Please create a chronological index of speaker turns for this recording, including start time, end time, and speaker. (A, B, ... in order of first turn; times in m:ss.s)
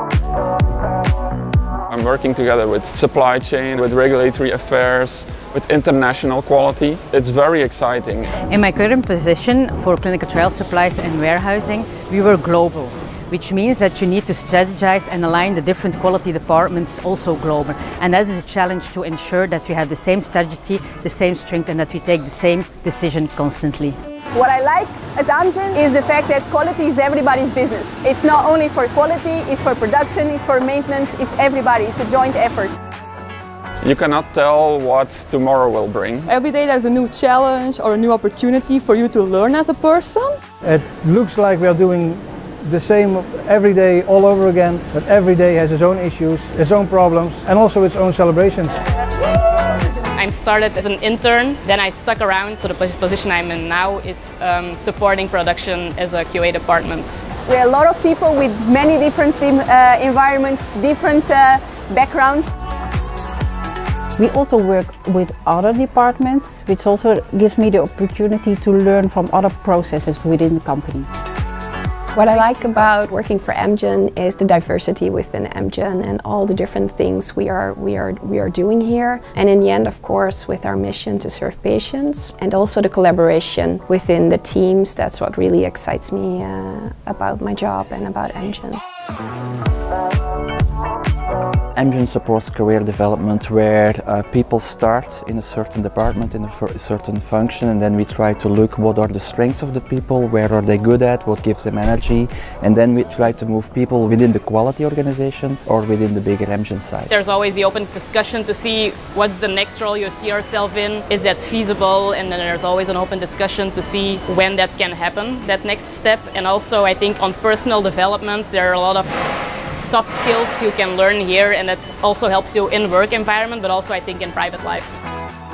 0:01.9-0:08.2 A
0:03.4-0:04.0 B
0:04.6-0:06.2 B
0:06.7-0:07.2 B
0:07.7-0:08.1 B
0:08.5-0:24.0 C
0:24.3-0:32.7 B
0:33.8-0:36.3 A
0:36.3-0:40.4 D
0:40.6-0:48.8 E
0:50.2-0:57.3 F
0:57.5-1:02.5 B
1:04.2-1:11.1 G
1:12.2-1:28.8 H
1:31.8-1:47.1 I
1:47.1-1:59.2 F
1:59.8-2:04.9 F